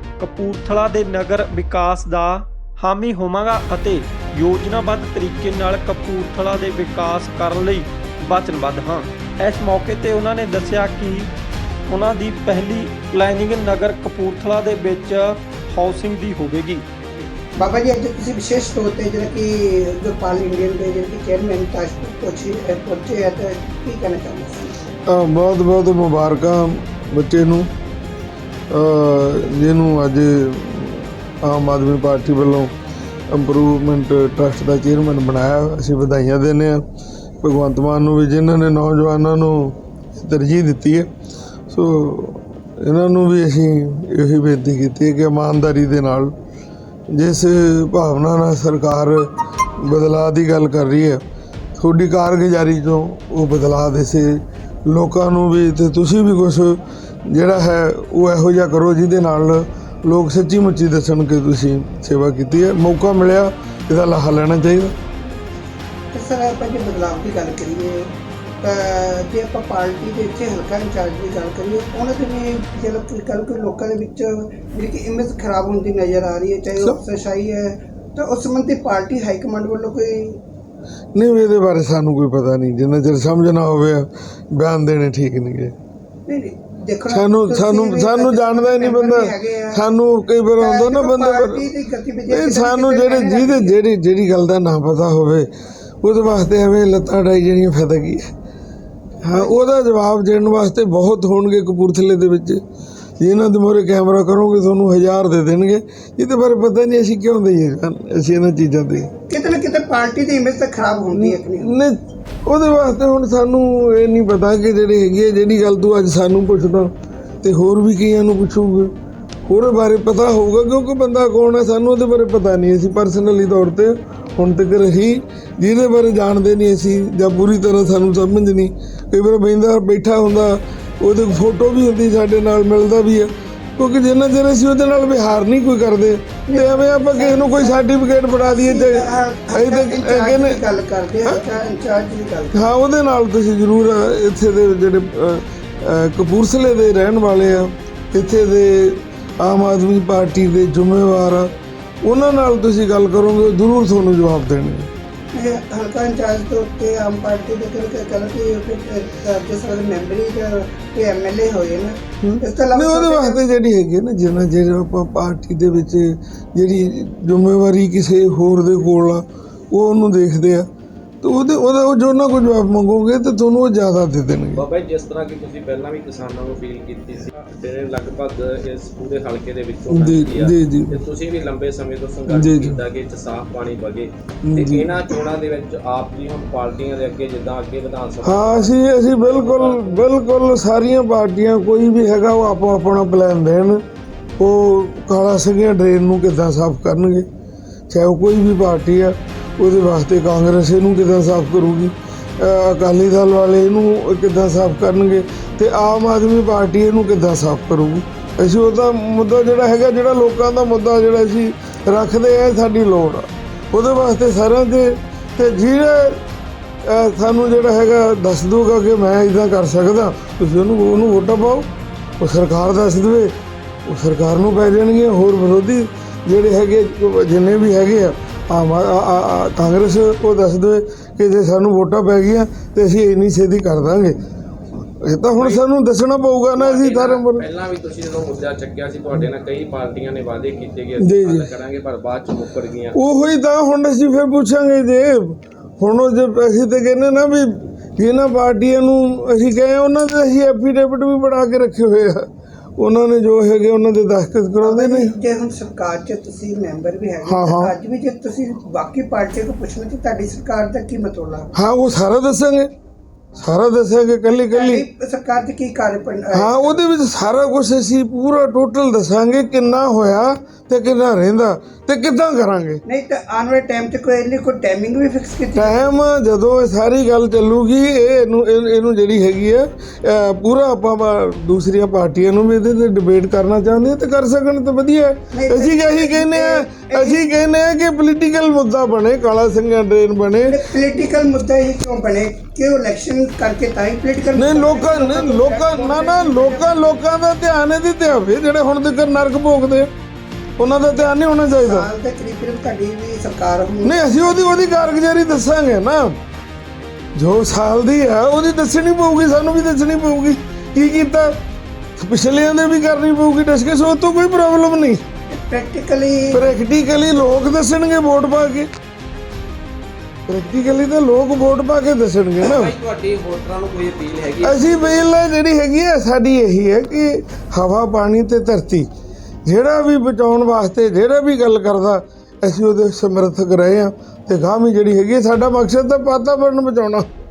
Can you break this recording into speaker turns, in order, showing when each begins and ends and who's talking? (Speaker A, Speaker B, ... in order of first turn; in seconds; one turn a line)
Speaker A: 0.2-11.3
Speaker A: 11.9-16.8
Speaker B: 17.2-24.8
Speaker C: 25.1-27.7
Speaker C: 28.7-32.7
Speaker C: 33.3-36.8
Speaker C: 37.4-41.1
Speaker C: 41.7-46.3
Speaker C: 47.1-51.2
Speaker C: 51.8-64.9
Speaker B: 66.1-68.1
Speaker B: 68.6-80.4
Speaker C: 81.2-85.7
Speaker B: 86.3-89.9
Speaker C: 87.1-91.7
Speaker B: 90.6-93.8
Speaker C: 92.3-95.5
Speaker C: 96.0-98.3
Speaker C: 99.2-102.6
Speaker B: 99.3-99.6
Speaker C: 103.2-109.1
Speaker B: 109.3-111.8
Speaker C: 111.1-116.9
Speaker C: 117.4-118.9
Speaker C: 119.5-140.6
Speaker B: 136.5-137.8
Speaker B: 138.5-142.6
Speaker C: 142.5-151.5
Speaker C: 152.0-154.9
Speaker B: 155.3-163.4
Speaker C: 162.2-170.7
Speaker C: 171.2-174.6
Speaker D: 174.5-190.1
Speaker C: 179.9-181.0
Speaker C: 182.3-182.8
Speaker C: 184.4-184.9
Speaker C: 188.2-193.8
Speaker C: 194.4-197.2
Speaker C: 197.9-216.2
Speaker C: 216.8-221.7
Speaker C: 222.2-223.3
Speaker C: 223.8-234.2
Speaker C: 235.0-237.5
Speaker D: 235.4-235.7
Speaker D: 236.6-243.0
Speaker C: 241.0-241.5
Speaker C: 242.9-255.1
Speaker B: 254.6-261.5
Speaker C: 257.2-257.7
Speaker C: 261.5-262.7
Speaker C: 263.4-264.9
Speaker B: 264.5-266.8
Speaker C: 266.3-272.8
Speaker B: 272.9-275.9
Speaker C: 275.6-290.6
Speaker B: 285.3-287.2
Speaker B: 290.5-296.7
Speaker C: 294.4-299.9
Speaker C: 300.6-301.9
Speaker B: 301.6-304.0
Speaker C: 303.8-306.2
Speaker C: 307.2-311.4
Speaker C: 312.0-315.0
Speaker B: 315.3-316.5
Speaker C: 316.3-318.7
Speaker C: 320.3-322.7
Speaker D: 322.4-325.1
Speaker C: 324.4-328.9
Speaker C: 329.5-337.1